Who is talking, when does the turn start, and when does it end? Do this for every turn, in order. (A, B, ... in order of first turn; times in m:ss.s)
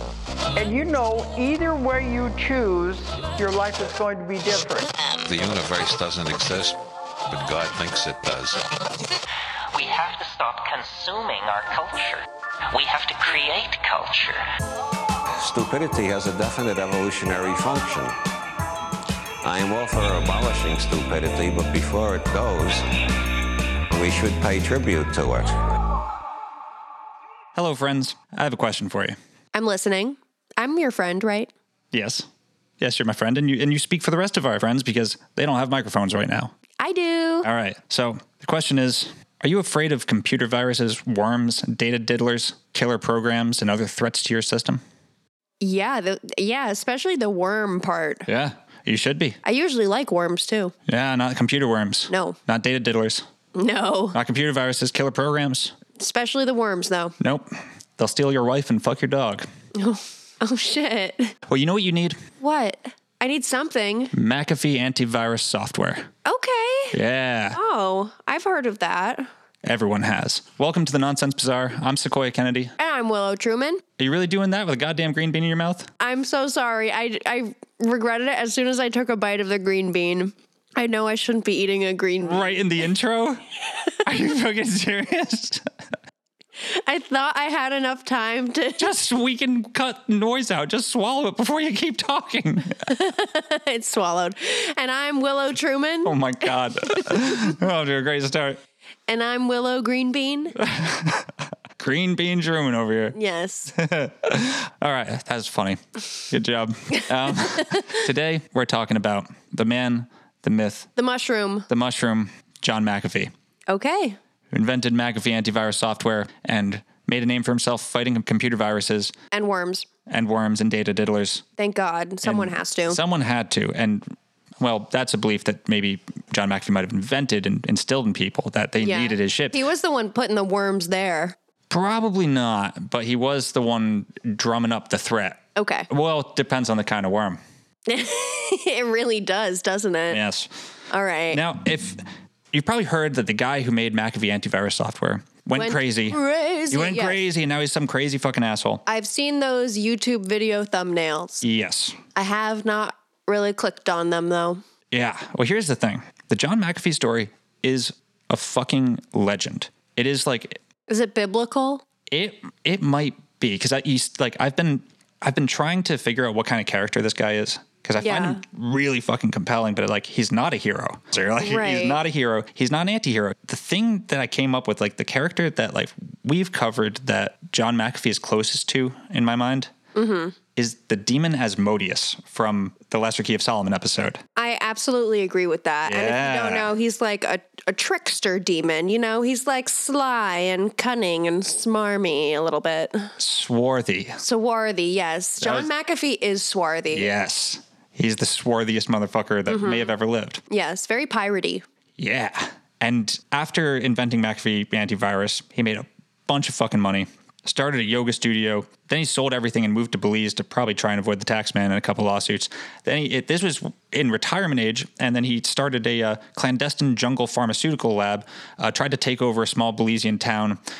0:00.6-0:04.9 A
0:05.2-0:06.8 B
0:07.3-0:08.7 B
0:09.7-0:14.4 C
0:15.4-0:18.2 D
0:19.4-0:22.9 D
0:23.9-0:25.6 D
0:27.6-0:29.2 E
0:29.6-0:31.5 F
0:31.9-0:32.3 E
0:32.8-0:36.5 E
0:36.8-0:37.5 F
0:37.4-0:44.8 E
0:45.6-0:48.3 F
0:48.3-0:49.4 E
0:49.4-0:50.7 F
0:50.9-0:53.2 E
0:52.1-0:52.4 F
0:53.6-0:54.2 F
0:54.1-0:55.7 E
0:56.0-0:57.1 F
0:57.2-0:59.5 E
0:59.8-1:01.3 F
1:01.5-1:02.2 E
1:02.4-1:04.1 F
1:04.1-1:06.1 E
1:06.2-1:07.0 F
1:06.9-1:07.6 E
1:07.5-1:09.3 F
1:09.6-1:12.7 E
1:12.8-1:13.8 F
1:14.0-1:15.9 E
1:16.0-1:22.6 F
1:22.2-1:23.4 E
1:24.0-1:25.6 E
1:26.6-1:28.9 F
1:28.8-1:32.8 E
1:32.9-1:37.6 F
1:36.0-1:38.6 E
1:39.1-1:40.6 F
1:40.6-1:43.2 E
1:43.2-1:43.7 F
1:43.8-1:50.9 E
1:47.4-1:48.0 F
1:51.0-1:51.7 F
1:51.7-1:53.3 E
1:53.7-1:54.2 F
1:54.5-1:59.1 E
1:59.3-1:59.9 F
2:00.1-2:01.4 E
2:01.6-2:03.0 F
2:02.2-2:09.6 E
2:08.8-2:11.4 F
2:11.7-2:17.4 E
2:15.6-2:15.9 F
2:17.9-2:20.2 F
2:20.1-2:20.5 E
2:20.9-2:21.4 F
2:21.3-2:28.8 E
2:25.5-2:27.2 F
2:28.9-2:31.4 F
2:31.4-2:32.0 E
2:32.2-2:34.6 F
2:34.9-2:40.6 E
2:40.9-2:41.8 F
2:42.1-2:59.7 E
2:48.0-2:48.4 F
2:51.4-2:52.0 F
3:00.0-3:00.4 F
3:00.6-3:04.2 E
3:04.4-3:13.1 F
3:05.8-3:06.7 E
3:13.2-3:14.2 E
3:14.2-3:17.1 F
3:15.4-3:15.7 E
3:16.9-3:20.4 E
3:19.5-3:19.9 F
3:20.5-3:21.6 F
3:22.0-3:40.6 E